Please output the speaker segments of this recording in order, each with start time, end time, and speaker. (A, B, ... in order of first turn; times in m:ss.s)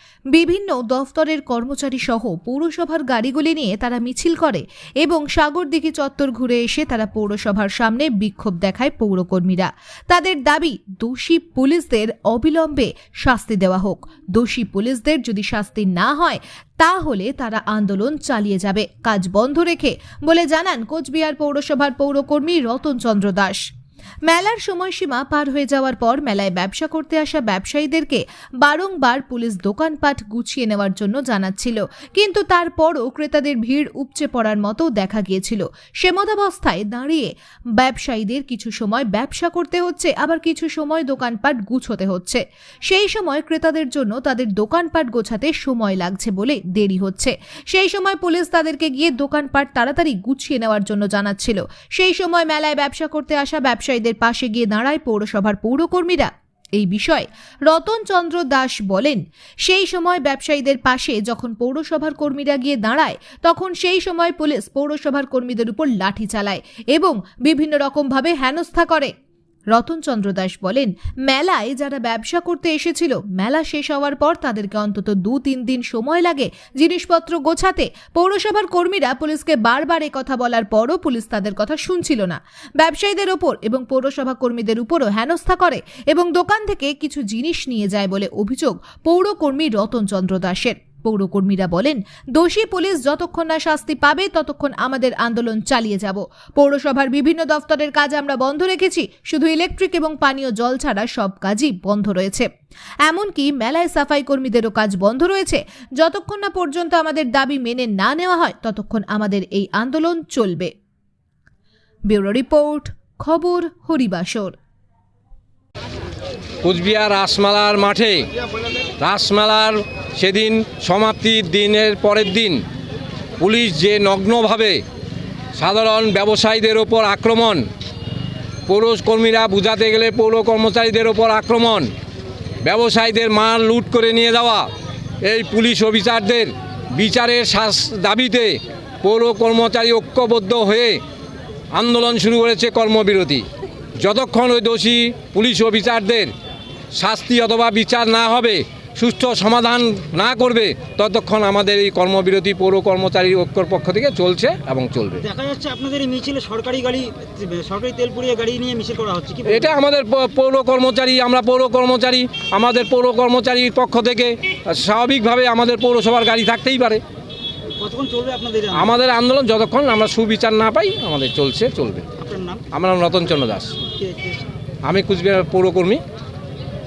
0:00.3-0:23.6 A
0:24.3-0:37.3 A
0:37.8-1:09.1 A
1:09.7-1:42.5 A
1:43.0-1:50.7 A
1:52.1-1:54.5 A
1:56.6-1:58.2 B
1:59.0-2:02.6 B
2:03.4-2:04.8 B
2:05.6-2:07.6 B
2:08.7-2:11.9 B
2:12.6-2:14.7 B
2:15.2-2:21.0 B
2:21.7-2:23.4 B
2:24.0-2:26.3 B
2:26.9-2:35.2 B
2:35.2-2:39.7 C
2:39.5-2:47.0 B
2:47.7-2:48.9 C
2:48.7-2:52.1 B
2:52.2-2:52.6 C
2:52.7-2:53.8 B
2:53.8-2:54.5 C
2:54.8-2:56.0 B